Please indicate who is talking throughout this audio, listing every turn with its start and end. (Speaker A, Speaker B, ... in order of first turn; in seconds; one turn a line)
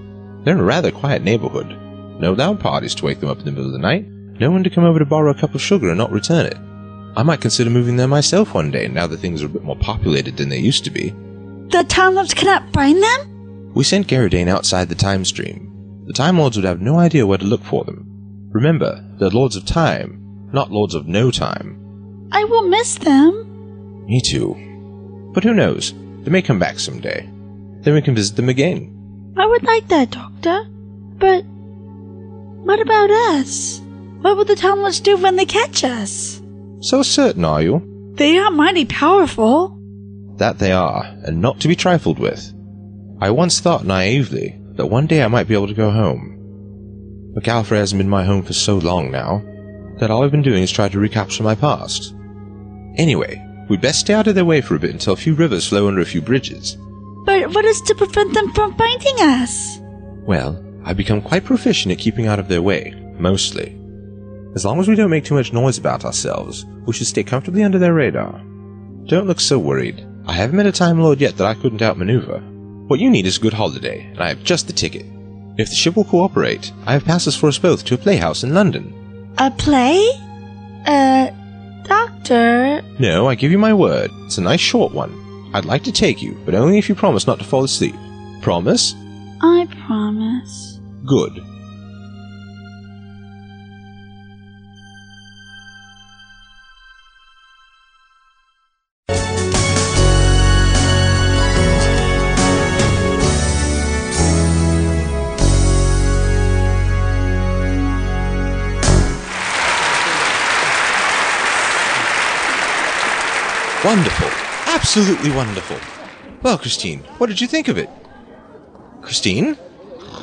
Speaker A: 0.4-6.6
Speaker A: 7.2-11.1
Speaker B: 11.7-13.3
Speaker A: 13.7-21.8
Speaker B: 22.3-23.4
Speaker A: 24.1-24.6
Speaker A: 25.3-27.3
Speaker A: 27.8-28.9
Speaker B: 29.4-30.6
Speaker B: 31.2-31.4
Speaker B: 32.6-36.4
Speaker A: 36.8-37.8
Speaker B: 38.1-39.8
Speaker A: 40.4-42.5
Speaker A: 43.2-46.4
Speaker A: 47.3-49.5
Speaker A: 50.0-52.1
Speaker A: 53.0-56.8
Speaker B: 57.2-59.8
Speaker A: 60.2-63.8
Speaker A: 64.5-68.4
Speaker A: 69.1-79.0
Speaker B: 79.4-80.2
Speaker B: 80.8-81.3
Speaker B: 81.8-82.8
Speaker A: 83.0-89.0
Speaker B: 89.4-90.8
Speaker A: 91.0-91.4
Speaker A: 113.8-115.8
Speaker A: 116.4-117.9
Speaker A: 119.0-119.6